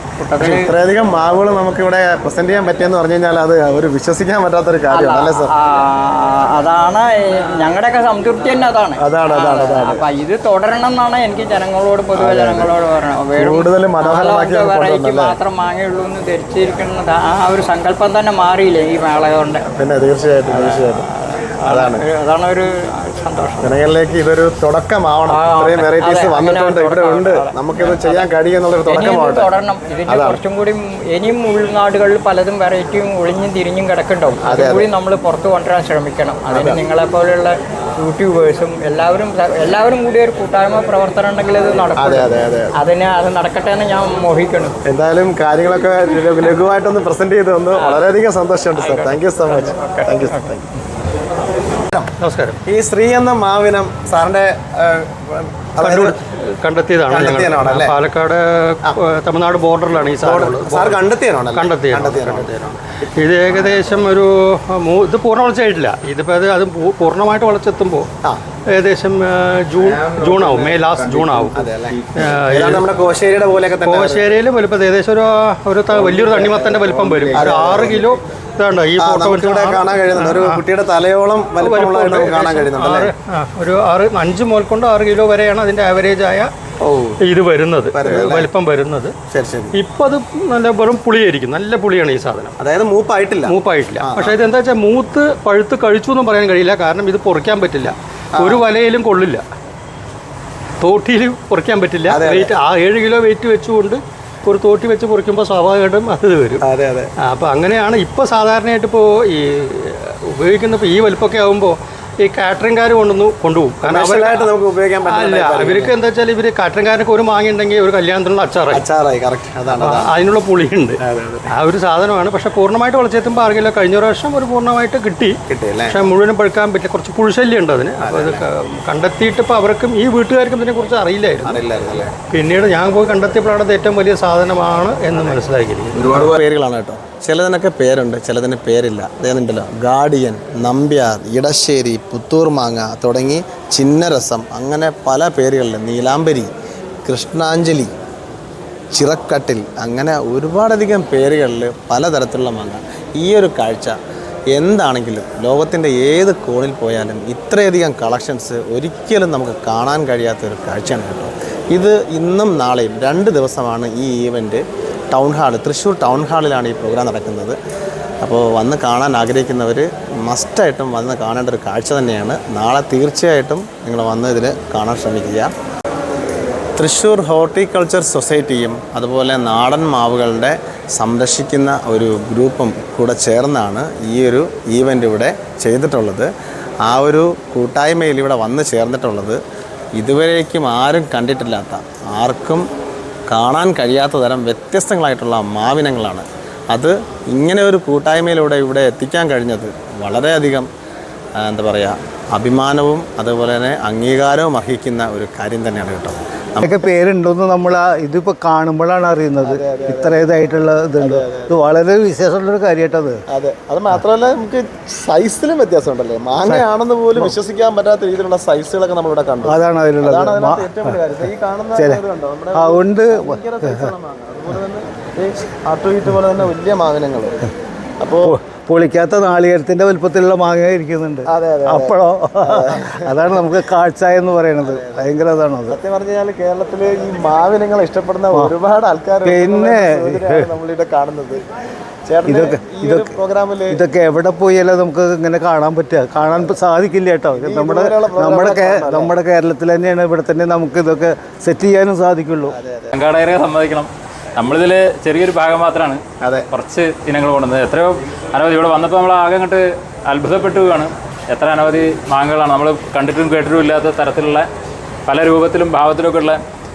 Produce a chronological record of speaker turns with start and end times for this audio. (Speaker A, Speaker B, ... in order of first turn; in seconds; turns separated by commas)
Speaker A: 0.3-0.7, Speaker B: 0.3-5.5, Speaker A: 4.9-19.6, Speaker B: 9.0-10.0, Speaker B: 12.2-12.7, Speaker B: 13.4-15.3, Speaker B: 19.7-21.1, Speaker A: 20.5-23.8, Speaker B: 21.6-22.0, Speaker B: 23.6-29.5, Speaker A: 25.3-28.2, Speaker A: 28.9-44.8, Speaker B: 30.1-30.4, Speaker B: 34.4-34.9, Speaker B: 36.5-36.8, Speaker B: 42.0-42.8, Speaker B: 44.9-50.6, Speaker A: 47.8-48.0, Speaker A: 48.7-50.6, Speaker C: 52.2-52.6, Speaker B: 52.6-56.2, Speaker C: 55.8-62.6, Speaker B: 57.1-58.0, Speaker B: 60.2-62.8, Speaker C: 63.1-68.1, Speaker C: 68.7-71.5, Speaker B: 71.5-74.3, Speaker C: 72.1-72.8, Speaker C: 73.8-80.6, Speaker B: 76.4-78.1, Speaker B: 79.0-83.1, Speaker C: 81.5-86.5, Speaker B: 86.8-87.2, Speaker C: 87.2-89.1, Speaker B: 87.9-88.5, Speaker B: 89.3-89.8, Speaker C: 89.7-92.5, Speaker B: 92.6-94.4, Speaker C: 93.4-99.4, Speaker B: 98.3-98.7, Speaker C: 100.8-106.6, Speaker B: 102.1-102.5, Speaker B: 106.6-107.1, Speaker C: 107.2-114.5, Speaker B: 113.8-116.0, Speaker C: 115.0-118.8, Speaker B: 118.7-120.1, Speaker C: 119.7-131.6, Speaker B: 121.0-121.5, Speaker B: 125.5-126.1, Speaker B: 128.0-128.4, Speaker B: 131.4-132.1, Speaker C: 132.3-136.3, Speaker B: 135.9-146.5, Speaker B: 147.0-147.9, Speaker B: 148.9-154.0, Speaker B: 154.5-167.6, Speaker B: 168.2-175.5, Speaker B: 176.8-186.3, Speaker B: 186.8-189.4, Speaker B: 190.0-192.7, Speaker B: 193.3-200.7, Speaker B: 201.4-206.7, Speaker D: 206.6-213.2, Speaker B: 209.4-210.3, Speaker B: 211.0-211.5, Speaker B: 213.3-227.3, Speaker D: 216.4-217.3, Speaker D: 219.4-221.0, Speaker D: 221.7-222.0, Speaker D: 222.5-223.9, Speaker B: 228.0-228.3, Speaker D: 228.2-235.8, Speaker B: 231.3-233.4, Speaker B: 234.6-235.0, Speaker B: 235.7-241.4, Speaker D: 239.2-240.5, Speaker B: 242.1-243.8, Speaker D: 242.2-252.6, Speaker B: 247.3-249.1, Speaker B: 252.5-252.9, Speaker E: 252.9-264.5, Speaker B: 256.2-256.4, Speaker E: 265.1-266.4